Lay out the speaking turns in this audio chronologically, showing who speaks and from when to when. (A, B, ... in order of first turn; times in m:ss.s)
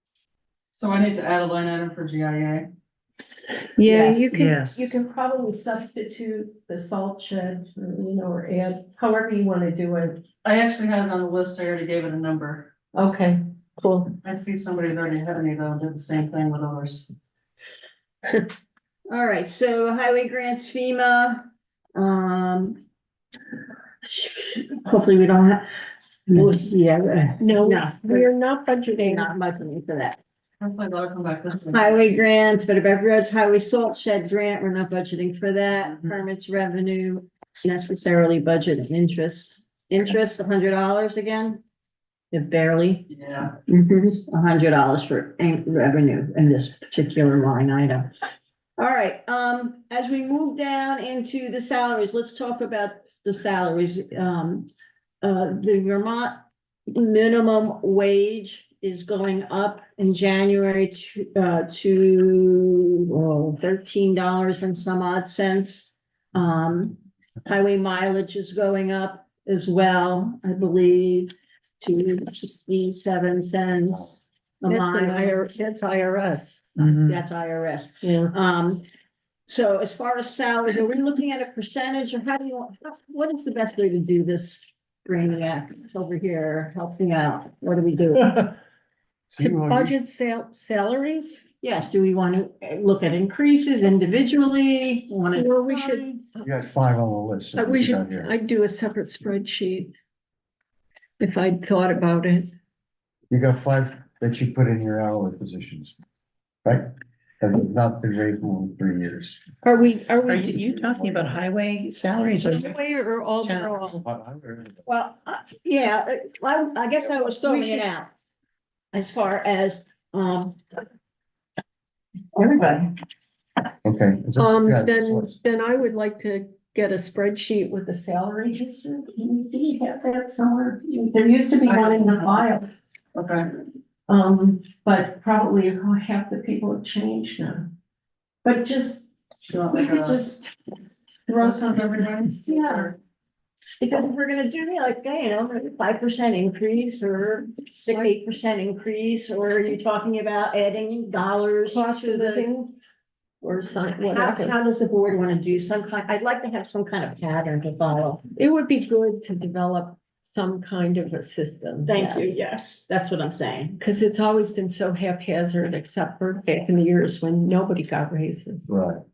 0:00.7-0:02.7 A
0:03.8-0:10.2 B
0:03.9-0:04.3 C
0:04.3-0:04.9 D
0:10.4-0:12.7 A
0:12.9-0:14.2 B
0:14.2-0:17.1 A
0:19.1-0:22.8 C
0:24.0-0:25.7 C
0:26.3-0:28.3 C
0:27.4-0:29.3 B
0:29.0-0:30.2 C
0:30.6-0:31.9 A
0:31.7-0:41.6 C
0:42.3-0:43.1 C
0:43.1-0:43.6 A
0:43.7-0:48.1 C
0:48.8-0:54.7 C
0:55.2-1:15.4 C
1:14.7-1:16.7 B
1:16.8-1:17.2 D
1:17.0-1:18.8 C
1:18.0-1:18.3 B
1:19.5-1:28.4 C
1:29.3-1:30.0 E
1:29.4-1:31.4 B
1:31.6-1:36.2 C
1:35.4-1:36.5 B
1:36.4-1:38.3 E
1:37.6-1:39.9 B
1:41.2-1:42.5 B
1:43.3-1:46.0 E
1:46.6-1:49.4 E
1:49.6-1:50.8 B
1:50.3-1:52.8 D
1:50.8-1:51.3 E
1:52.5-1:54.0 B
1:53.4-1:53.8 D
1:53.9-1:54.8 E
1:54.9-1:58.1 C
1:57.4-1:57.9 B
1:58.9-2:00.6 C
2:02.4-2:02.9 C
2:03.8-2:05.4 E
2:04.4-2:12.7 B
2:11.7-2:12.4 A
2:13.2-2:13.5 A
2:14.1-2:17.7 B
2:18.4-2:19.1 B
2:19.5-2:20.2 A
2:19.7-2:20.6 B
2:21.3-2:22.9 B
2:21.3-2:22.9 A
2:23.8-2:32.5 C
2:31.7-2:32.8 B
2:33.4-2:34.6 B
2:34.0-2:38.2 C
2:38.4-2:42.5 B
2:41.9-2:43.8 C
2:43.8-2:48.7 B
2:48.7-2:49.0 E